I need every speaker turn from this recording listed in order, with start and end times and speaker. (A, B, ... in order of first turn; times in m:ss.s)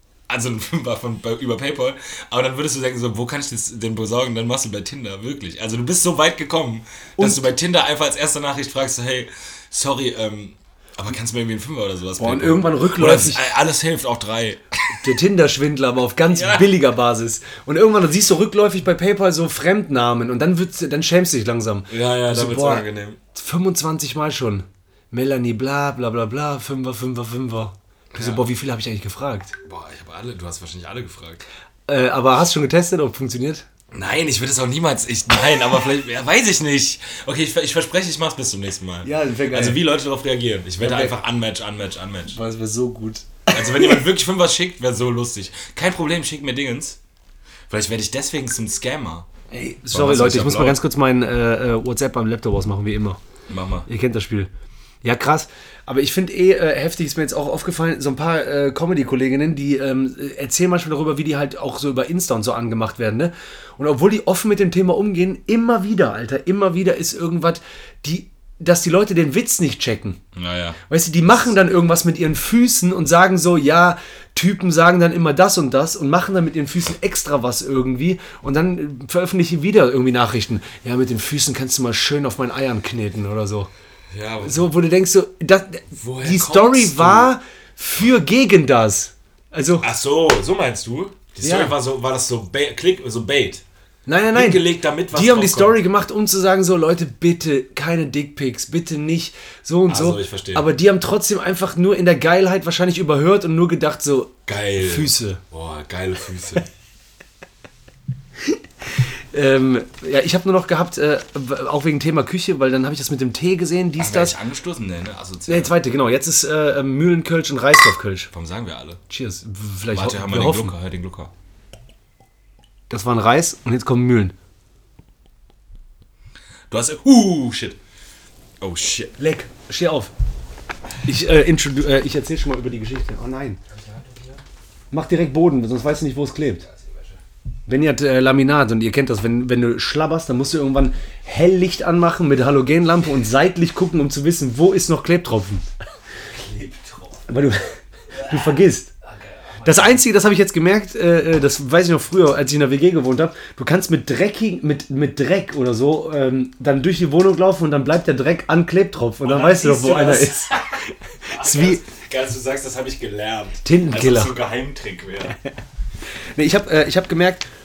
0:00.3-0:15.1 A
0:07.2-0:07.4 B
0:12.2-0:13.5 B
0:15.0-0:29.6 B
0:16.3-0:16.8 A
0:21.9-0:23.2 A
0:28.1-0:28.4 A
0:29.6-0:31.4 A
0:31.9-0:33.6 B
0:33.9-0:42.4 A
0:39.0-0:39.8 B
0:40.8-0:41.1 B
0:42.3-0:43.9 B
0:43.5-0:47.0 A
0:47.7-0:49.3 A
0:49.5-0:53.2 B
0:49.9-0:50.8 A
0:53.5-0:53.9 A
0:53.9-0:54.5 B
0:55.0-1:10.2 B
1:10.3-1:10.8 A
1:10.9-1:23.7 B
1:24.1-1:24.7 A
1:24.4-1:29.8 B
1:25.9-1:27.3 A
1:29.8-1:33.6 A
1:31.4-1:31.7 B
1:34.0-1:45.4 B
1:34.3-1:35.8 A
1:39.9-1:40.7 A
1:44.5-1:46.6 A
1:48.5-1:54.3 B
1:54.0-1:55.7 A
1:55.5-1:58.3 B
1:58.3-1:59.0 A
1:59.1-2:00.7 B
1:59.9-2:01.3 A
2:02.9-2:04.3 B
2:06.7-2:07.8 A
2:08.6-2:09.1 A
2:09.2-2:10.1 B
2:11.0-2:13.6 B
2:13.7-2:14.4 A
2:14.9-2:16.6 B
2:16.6-2:17.2 A
2:17.7-2:25.7 B
2:26.3-2:27.3 A
2:27.3-2:28.9 B
2:28.1-2:30.0 A
2:29.6-2:41.8 B
2:39.2-2:45.4 A
2:43.6-2:44.3 B
2:46.3-2:47.4 B